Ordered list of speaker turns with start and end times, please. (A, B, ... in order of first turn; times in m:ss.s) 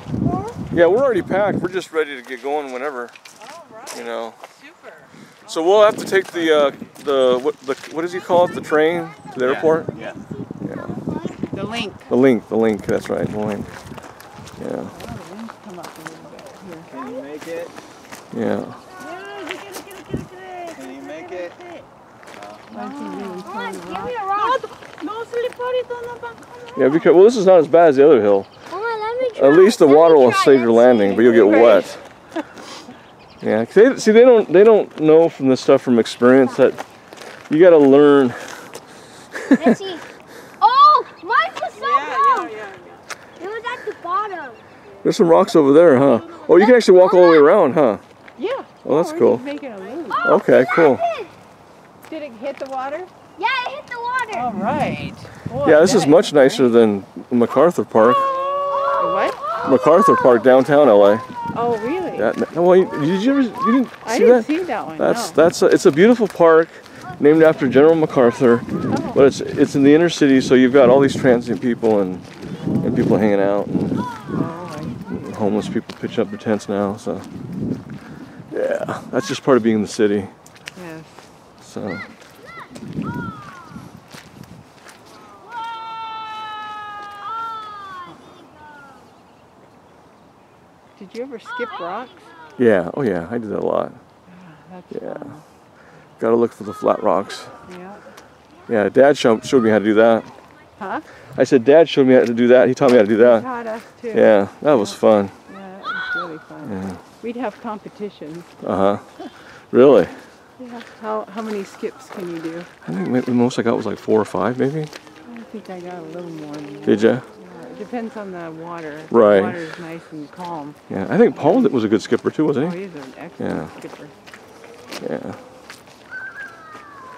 0:00.7-0:03.2 A
0:03.4-0:04.1 B
0:03.9-0:04.4 A
0:04.6-0:05.1 B
0:05.5-0:10.0 A
0:09.4-0:10.2 C
0:09.7-0:10.2 D
0:10.6-0:11.0 A
0:10.7-0:11.5 D
0:11.5-0:12.1 B
0:12.1-0:13.7 A
0:14.6-0:14.9 A
0:14.9-0:16.9 B
0:16.9-0:17.7 C
0:18.3-0:18.8 A
0:19.1-0:21.6 B
0:20.8-0:21.6 C
0:22.4-0:22.6 C
0:22.7-0:27.0 B
0:22.7-0:24.7 D
0:26.8-0:28.5 A
0:28.7-0:31.9 D
0:29.3-0:32.0 A
0:31.2-0:31.9 B
0:33.4-0:36.8 A
0:37.5-0:38.7 A
0:39.4-0:39.7 A
0:39.6-0:40.0 D
0:40.6-0:42.6 D
0:41.8-0:43.0 B
0:43.4-0:44.6 D
0:45.0-0:48.0 A
0:46.5-0:47.5 D
0:48.4-0:50.3 B
0:48.8-0:49.4 A
0:50.1-0:51.3 D
0:50.2-0:51.0 A
0:52.1-0:53.1 B
0:53.4-0:54.5 D
0:54.3-0:56.7 B
0:55.6-0:58.4 A
0:58.6-1:00.1 D
0:58.9-0:59.4 B
0:59.6-1:01.2 A
1:01.5-1:02.3 B
1:02.2-1:12.3 A
1:04.0-1:05.4 B
1:08.9-1:09.2 B
1:12.6-1:12.9 B
1:12.8-1:14.0 A
1:14.3-1:15.1 B
1:15.1-1:17.3 A
1:18.5-1:20.3 A
1:20.8-1:21.3 B
1:21.6-1:22.1 A
1:31.0-1:32.3 B
1:32.6-1:34.0 A
1:34.3-1:35.4 B
1:34.9-1:35.3 A
1:36.2-1:37.5 A
1:37.7-1:38.0 B
1:38.7-1:40.3 A
1:40.8-1:41.0 B
1:41.4-1:43.5 A
1:42.8-1:48.5 B
1:44.1-1:45.3 A
1:46.6-1:47.0 A
1:48.6-1:49.0 A
1:49.7-1:50.1 A
1:50.6-1:52.7 B
1:52.8-1:54.9 A
1:55.2-2:00.8 B
1:56.8-1:57.2 A
1:59.1-1:59.6 A
2:00.9-2:02.8 A
2:01.3-2:01.7 B
2:02.6-2:04.1 B
2:03.4-2:03.7 A
2:05.0-2:05.4 A